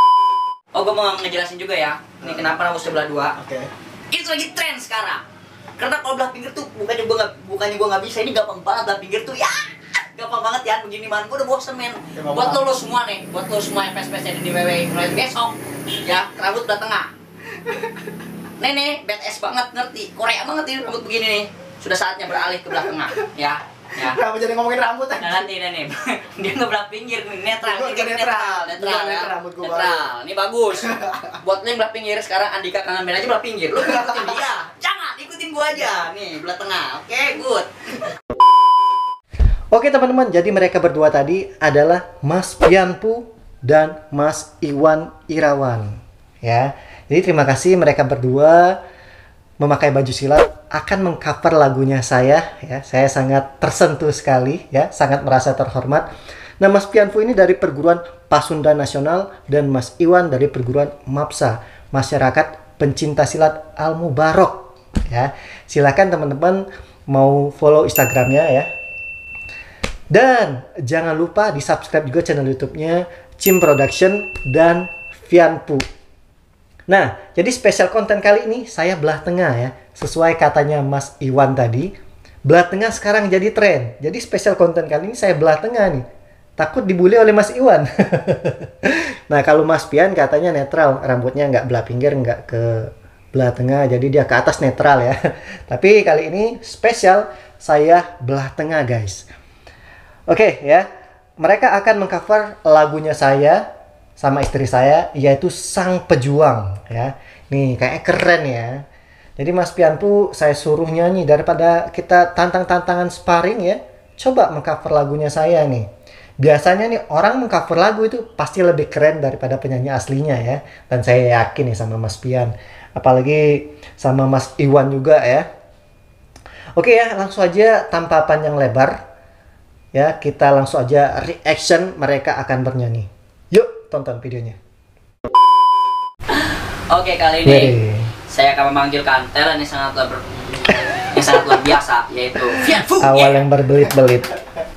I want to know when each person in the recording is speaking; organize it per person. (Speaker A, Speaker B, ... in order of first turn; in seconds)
Speaker A: 0.7-3.3, 4.1-5.2, 5.8-17.1, 18.6-24.2, 25.2-38.1, 136.9-137.8, 138.3-140.2, 141.1-143.4
Speaker B: 2.2-2.5, 3.4-3.7, 12.2-12.6, 24.0-25.5, 27.6-30.1, 30.8-31.2, 33.8-34.4
Speaker C: 39.7-48.8, 49.6-56.1, 56.6-68.7, 70.1-75.8, 76.9-81.9, 82.5-86.0, 86.6-95.2, 95.7-99.3, 100.3-100.9, 101.4-103.7, 104.2-108.8, 109.4-115.9, 116.4-125.5, 126.8-129.0, 129.9-134.6, 137.5-138.1, 143.0-144.3